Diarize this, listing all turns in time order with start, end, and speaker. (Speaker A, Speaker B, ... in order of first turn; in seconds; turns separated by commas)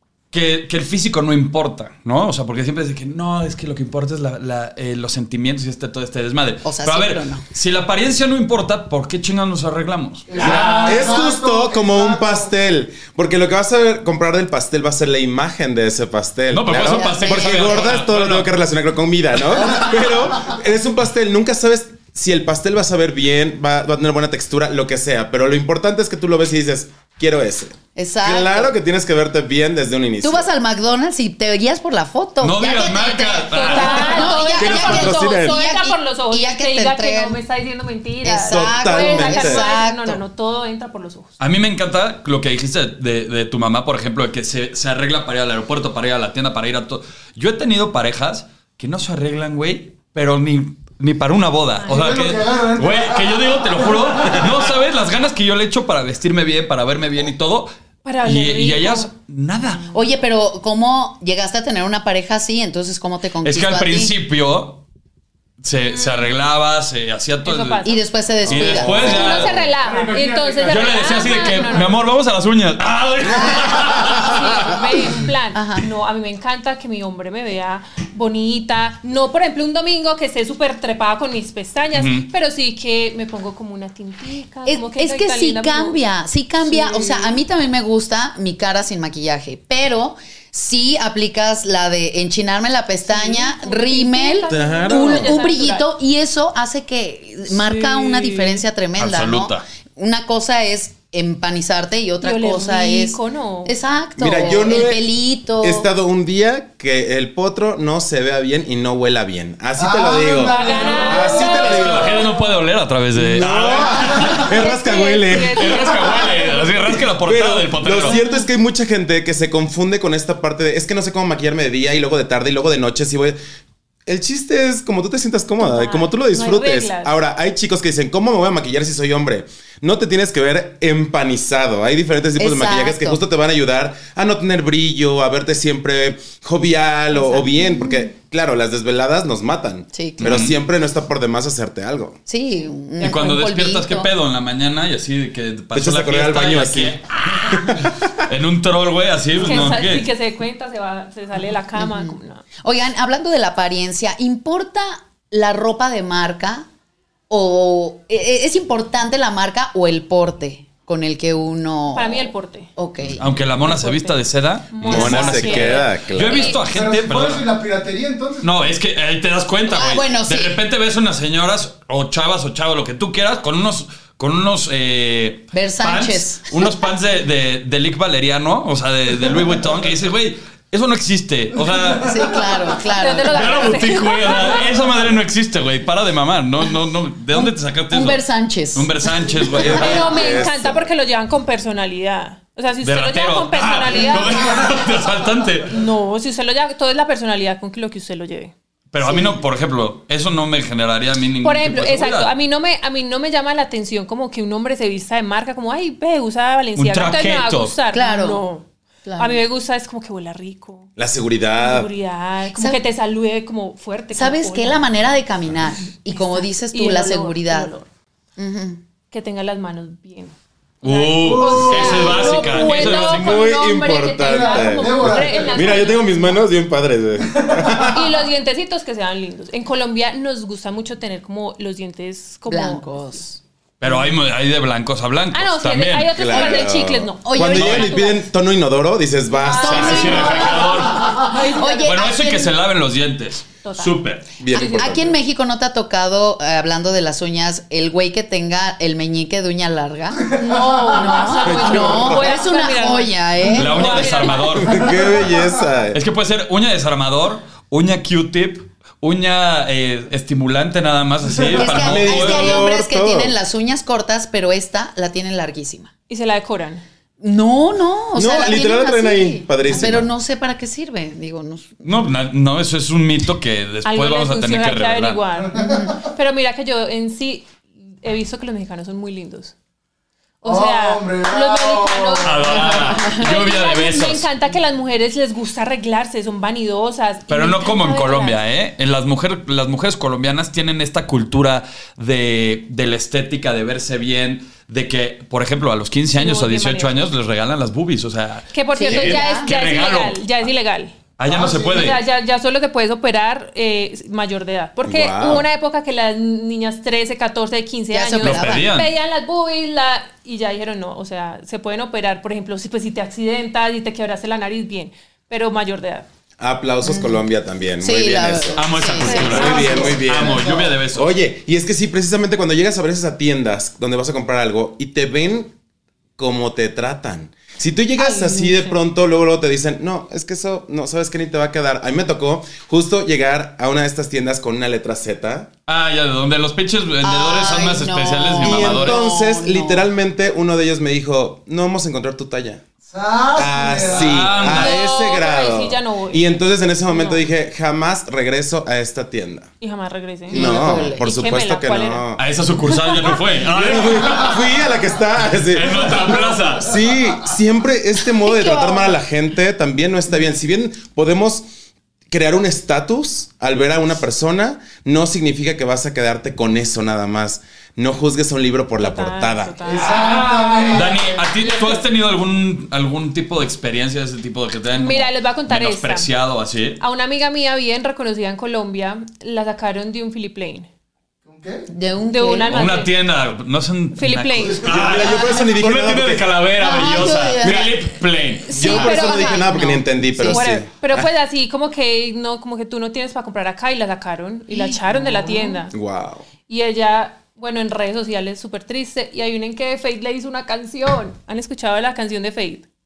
Speaker A: 0.3-11.1, Speaker B: 6.6-7.4, Speaker C: 10.3-12.5, Speaker D: 10.4-30.4, Speaker A: 16.5-18.5, Speaker B: 16.7-17.9, Speaker B: 27.9-28.8, Speaker B: 30.2-37.4, Speaker A: 32.4-34.3, Speaker E: 33.5-41.3, Speaker D: 34.5-35.6, Speaker B: 38.2-40.2, Speaker D: 38.3-39.7, Speaker A: 41.4-57.7, Speaker E: 51.8-52.1, Speaker C: 51.8-54.1, Speaker E: 58.0-59.1, Speaker A: 58.2-59.8, Speaker E: 59.6-60.0, Speaker B: 59.9-64.1, Speaker A: 63.4-64.8, Speaker A: 65.6-67.9, Speaker E: 65.9-66.3, Speaker E: 67.4-68.0, Speaker B: 67.8-69.4, Speaker A: 68.4-69.7, Speaker D: 68.4-69.4, Speaker E: 69.0-72.0, Speaker C: 69.8-71.7, Speaker A: 70.6-74.8, Speaker E: 74.0-86.0, Speaker B: 75.5-75.8, Speaker A: 81.9-82.3, Speaker B: 84.7-105.9, Speaker E: 86.7-87.3, Speaker E: 93.1-95.8, Speaker D: 94.5-95.3, Speaker E: 97.5-98.6, Speaker A: 99.0-99.6, Speaker E: 102.2-103.8, Speaker D: 104.2-105.1, Speaker D: 105.6-112.3, Speaker C: 109.8-112.0, Speaker E: 110.5-112.3, Speaker A: 111.6-114.5, Speaker D: 113.1-123.4, Speaker E: 114.4-116.6, Speaker A: 115.5-118.2, Speaker E: 118.0-118.5, Speaker D: 124.0-142.2, Speaker E: 125.6-127.2, Speaker B: 132.4-133.2, Speaker B: 137.1-138.1, Speaker B: 139.9-140.4, Speaker A: 140.2-140.6, Speaker B: 142.3-144.1, Speaker A: 143.0-150.1, Speaker D: 145.7-148.1, Speaker E: 149.4-152.4, Speaker B: 151.8-156.7, Speaker B: 157.3-163.2, Speaker E: 161.9-162.7, Speaker A: 163.2-167.5, Speaker E: 163.6-166.6, Speaker D: 164.8-166.6, Speaker C: 166.6-168.5, Speaker A: 168.4-182.1, Speaker B: 169.7-170.6, Speaker B: 175.5-176.7, Speaker B: 182.0-183.8, Speaker E: 182.9-184.7, Speaker A: 183.3-190.2, Speaker B: 187.3-189.5, Speaker D: 189.5-190.9, Speaker E: 189.6-194.7, Speaker A: 192.8-195.7, Speaker E: 195.7-198.5, Speaker A: 198.9-202.3, Speaker B: 199.0-199.4, Speaker E: 201.4-208.6, Speaker A: 206.8-207.7, Speaker B: 207.9-208.4, Speaker B: 209.0-209.4, Speaker E: 209.2-210.9, Speaker D: 211.0-211.9, Speaker E: 211.6-214.8, Speaker B: 212.5-212.8, Speaker B: 214.1-217.7, Speaker E: 216.1-217.9, Speaker B: 218.4-218.8, Speaker E: 219.1-226.4, Speaker A: 220.8-223.4, Speaker C: 221.1-222.7, Speaker D: 222.6-228.1, Speaker C: 224.2-225.8, Speaker C: 227.4-227.8, Speaker E: 227.9-233.2, Speaker B: 232.5-233.4, Speaker A: 233.8-236.2, Speaker E: 235.3-238.2, Speaker D: 236.1-240.2, Speaker B: 236.3-236.7, Speaker B: 237.2-238.2, Speaker A: 237.6-237.8, Speaker E: 239.4-242.0, Speaker B: 239.4-242.5, Speaker A: 239.6-241.2, Speaker A: 241.8-244.3, Speaker E: 243.6-244.0, Speaker D: 244.4-245.1, Speaker E: 244.5-245.0, Speaker B: 244.5-250.3, Speaker E: 250.3-254.6, Speaker C: 250.3-251.3, Speaker B: 250.9-254.3, Speaker D: 251.4-252.2, Speaker A: 253.5-254.9, Speaker D: 254.5-256.0, Speaker C: 254.7-255.4, Speaker A: 255.9-262.6, Speaker B: 261.5-265.9, Speaker D: 261.6-263.3, Speaker E: 266.1-266.8, Speaker B: 267.2-271.8, Speaker D: 268.1-270.1, Speaker A: 271.8-275.2, Speaker E: 273.8-279.5, Speaker C: 275.4-276.0, Speaker B: 275.5-275.9, Speaker E: 280.4-288.4, Speaker C: 280.4-283.0, Speaker A: 282.2-284.2, Speaker A: 287.3-300.3, Speaker E: 296.1-297.0, Speaker E: 298.5-301.0, Speaker B: 298.7-299.5, Speaker A: 301.2-302.0, Speaker C: 301.2-301.9, Speaker E: 301.6-316.1, Speaker D: 304.8-305.5, Speaker B: 307.9-308.7, Speaker A: 308.2-308.9, Speaker D: 316.4-325.5, Speaker B: 316.8-317.2, Speaker B: 317.8-319.9, Speaker A: 318.6-321.1, Speaker E: 319.0-319.9, Speaker C: 319.4-320.7, Speaker D: 326.2-335.5, Speaker E: 328.0-328.8, Speaker A: 335.7-339.0, Speaker B: 337.0-339.9, Speaker D: 338.4-342.6, Speaker C: 342.9-344.2, Speaker D: 343.4-349.5, Speaker A: 343.9-344.8, Speaker E: 344.5-347.2, Speaker E: 349.6-352.0, Speaker B: 350.3-351.0, Speaker D: 350.3-352.2, Speaker A: 352.2-354.5, Speaker D: 353.4-361.4, Speaker A: 355.5-356.7, Speaker B: 358.2-358.9, Speaker D: 362.1-369.6, Speaker E: 368.8-371.8, Speaker C: 369.6-371.2, Speaker A: 369.9-376.8, Speaker E: 374.7-376.1, Speaker E: 376.8-380.7, Speaker C: 381.2-381.7, Speaker B: 381.7-382.6, Speaker E: 382.1-382.9, Speaker A: 382.5-388.5, Speaker E: 383.9-384.6, Speaker C: 384.5-385.1, Speaker D: 384.6-386.3, Speaker B: 386.6-387.7, Speaker E: 388.5-389.5, Speaker B: 388.5-390.4, Speaker D: 388.5-391.0, Speaker E: 390.2-395.7, Speaker B: 394.5-395.6, Speaker D: 395.7-396.2, Speaker E: 396.5-402.6